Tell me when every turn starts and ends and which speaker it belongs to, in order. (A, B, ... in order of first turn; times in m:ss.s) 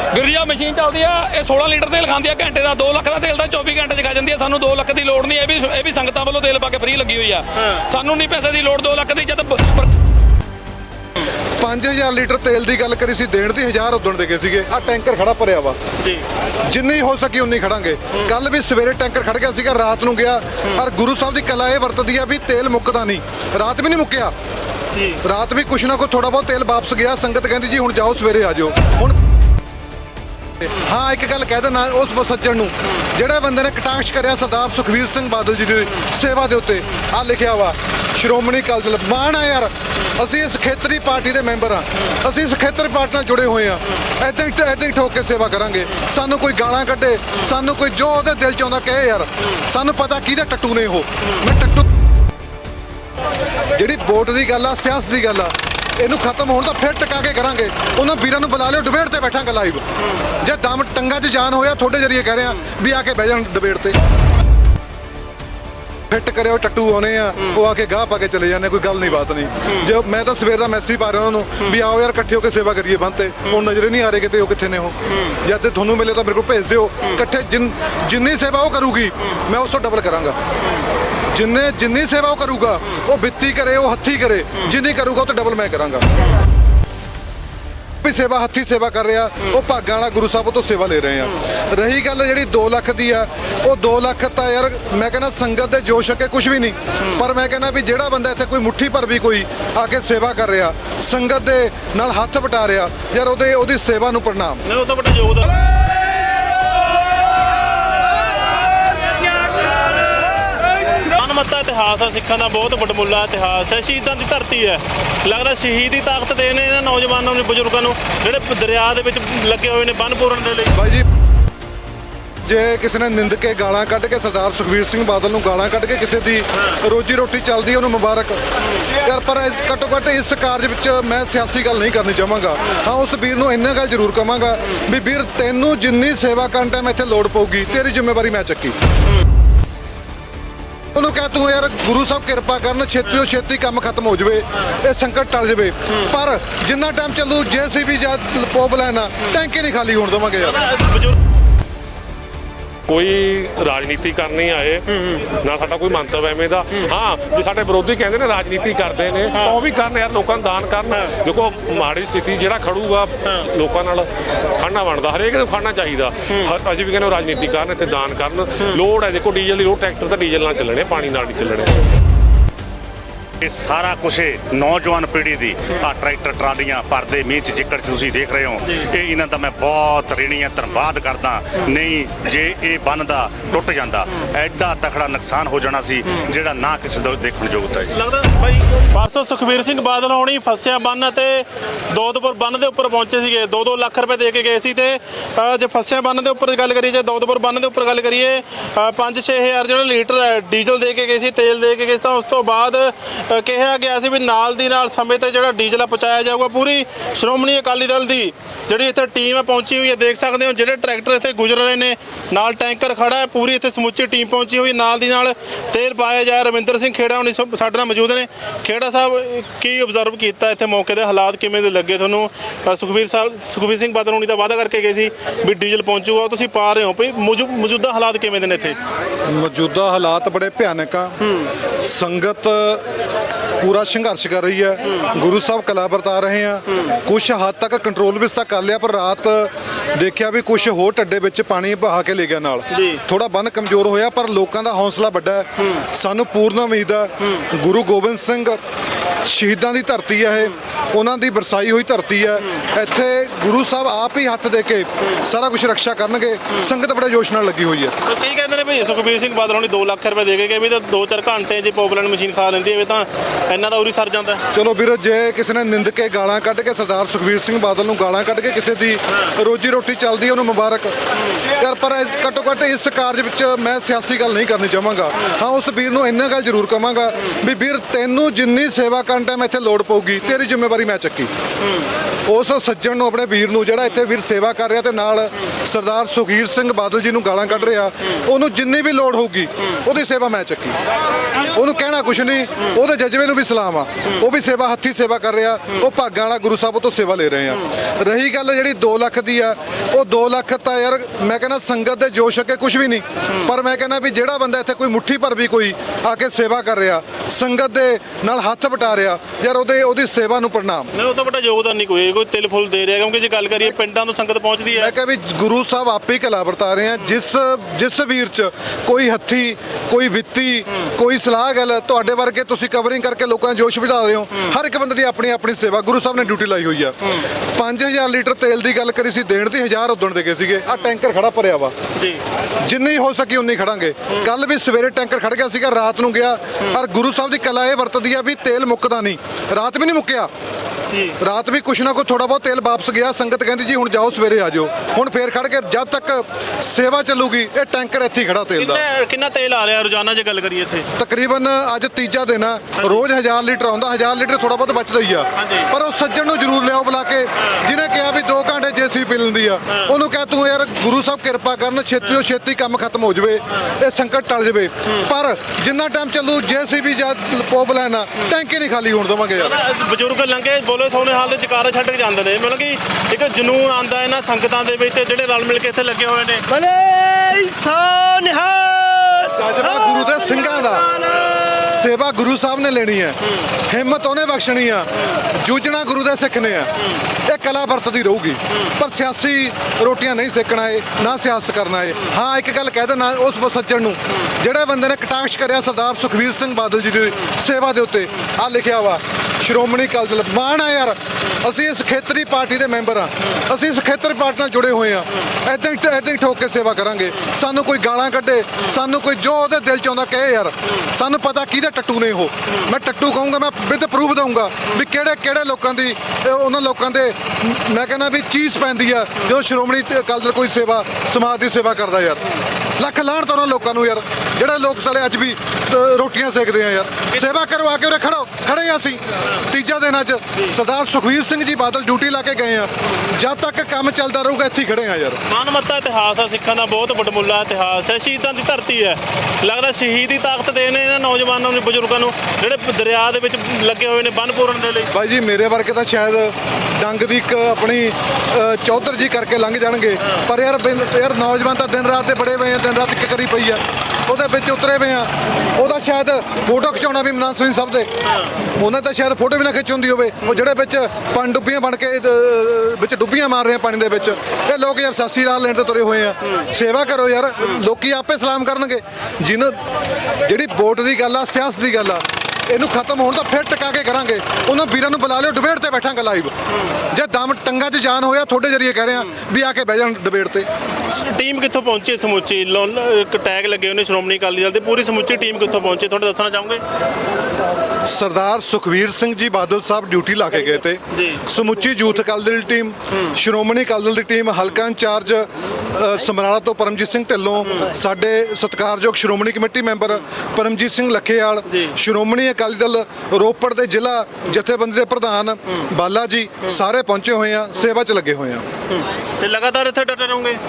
0:00.1-0:09.9 A
0:11.6-0:15.8 B
0:16.6-0:24.3 B
0:24.9-0:25.2 C
0:25.2-0:29.1 B
0:30.6-0:51.8 B
0:53.7-0:59.8 B
1:00.4-1:04.0 B
1:06.1-1:20.4 B
1:21.3-1:26.0 B
1:28.0-1:44.6 B
1:44.6-1:45.6 C
1:51.1-2:00.7 C
2:00.7-2:01.0 B
2:02.4-2:08.4 B
2:09.0-2:18.7 B
2:20.9-2:30.6 B
2:30.4-2:31.2 C
2:32.9-2:34.8 D
2:34.9-2:35.2 C
2:35.4-2:44.1 D
2:39.3-2:39.6 C
2:44.6-2:51.8 D
2:53.4-3:08.0 E
3:07.9-3:48.8 C
3:49.3-3:51.2 B
3:51.2-3:51.5 C
3:51.8-3:52.8 B
3:53.6-4:08.6 B
4:02.7-4:03.0 C
4:09.2-4:17.9 B
4:18.0-4:24.4 C
4:24.5-4:30.9 B
4:31.6-4:41.3 B
4:42.3-4:50.8 B
4:51.5-5:10.9 B
5:10.9-5:14.9 C
5:14.8-5:31.7 B
5:32.0-5:32.2 C
5:32.6-5:40.3 B
5:40.9-5:41.2 C
5:41.2-5:48.8 B
5:48.6-5:50.9 C
5:51.0-6:09.6 B
5:55.4-5:55.7 C
6:09.4-6:16.4 C
6:16.5-6:21.6 F
6:19.3-6:20.9 B
6:21.7-6:23.2 B
6:23.7-6:26.7 B
6:27.2-7:02.2 B
7:02.8-7:15.2 B
7:15.3-7:24.9 C
7:24.9-7:37.9 B
7:38.0-7:38.3 C
7:38.6-7:49.6 B
7:50.2-7:56.3 B
7:56.9-8:00.4 B
8:00.9-8:06.6 C
8:07.8-8:28.5 B
8:10.9-8:11.2 C
8:21.5-8:21.7 C
8:28.7-8:30.4 C